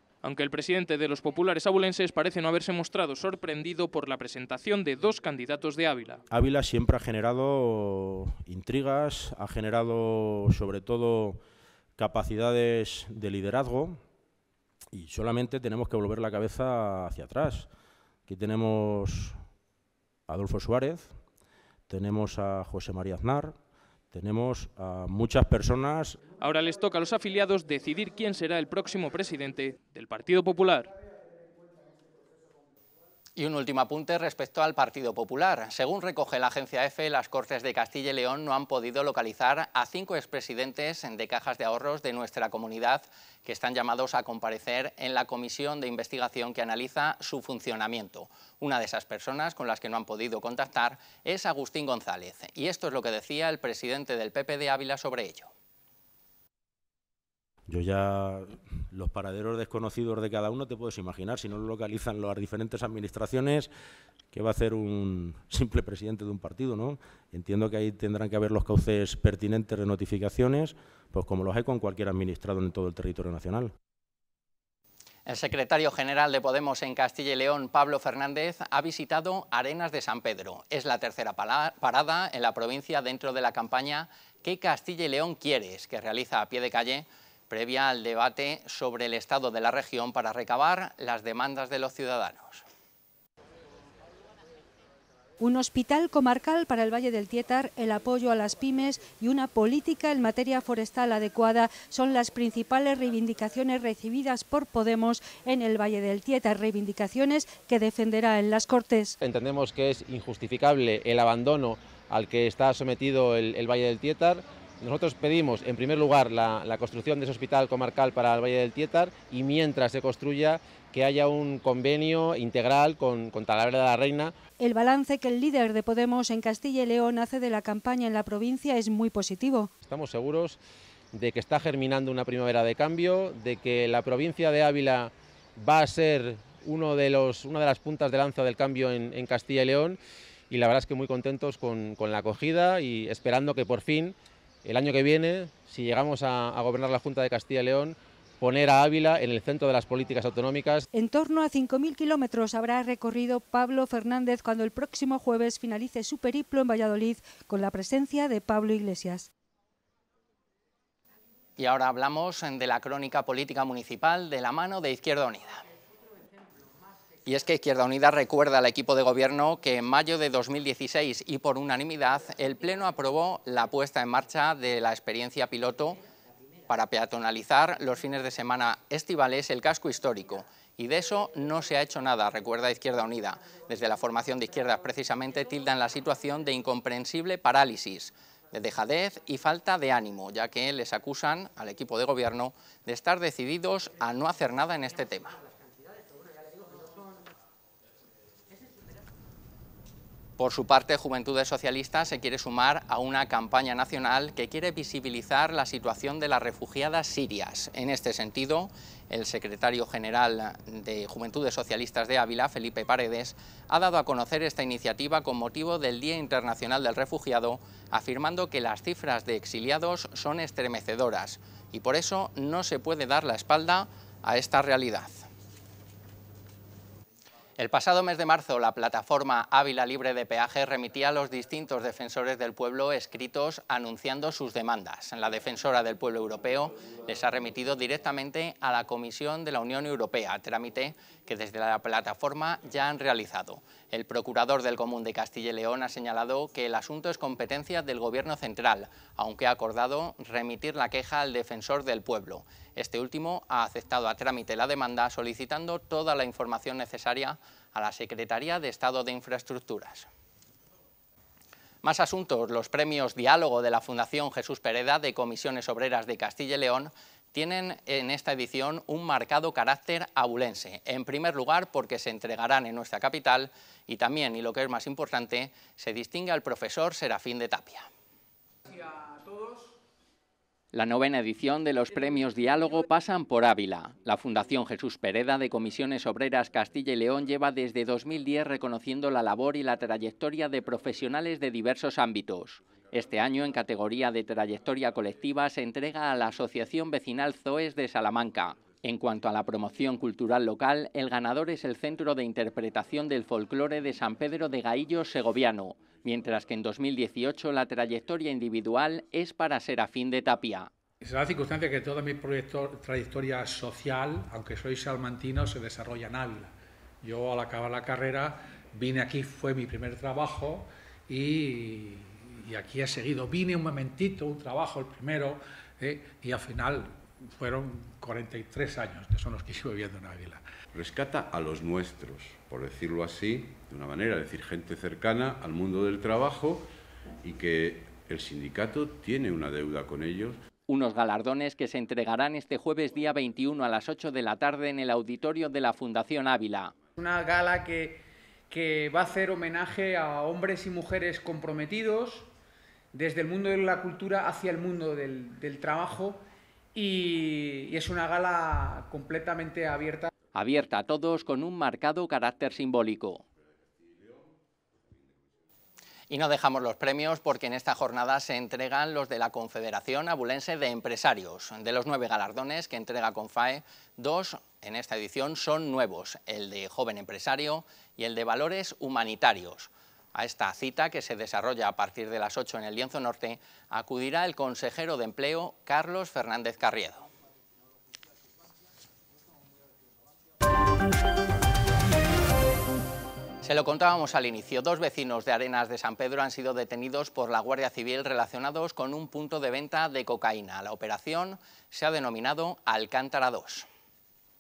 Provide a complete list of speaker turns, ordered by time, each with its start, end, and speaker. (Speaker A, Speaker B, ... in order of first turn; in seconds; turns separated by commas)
Speaker A: 0.2-6.2, Speaker B: 6.3-11.4, Speaker B: 12.0-14.0, Speaker B: 14.9-17.7, Speaker B: 18.3-19.4, Speaker B: 20.3-21.2, Speaker B: 21.9-23.6, Speaker B: 24.1-26.2, Speaker A: 26.4-30.9, Speaker C: 33.4-55.5, Speaker B: 57.7-63.7, Speaker B: 64.3-73.7, Speaker C: 75.3-92.6, Speaker D: 95.4-109.2, Speaker E: 109.2-124.3, Speaker D: 124.6-129.7, Speaker E: 129.8-130.6, Speaker E: 131.1-140.0, Speaker E: 140.5-150.8, Speaker D: 150.9-159.3, Speaker C: 161.6-165.6, Speaker C: 167.3-176.0, Speaker C: 176.7-195.4, Speaker C: 200.4-225.3, Speaker C: 227.6-260.1, Speaker C: 261.8-277.9, Speaker F: 278.7-279.8, Speaker C: 280.7-310.7, Speaker G: 311.0-330.4, Speaker H: 330.7-336.7, Speaker H: 337.2-340.4, Speaker C: 340.7-346.7, Speaker F: 347.0-352.3, Speaker F: 352.9-360.1, Speaker C: 360.3-363.2, Speaker C: 366.1-387.1, Speaker C: 393.4-403.7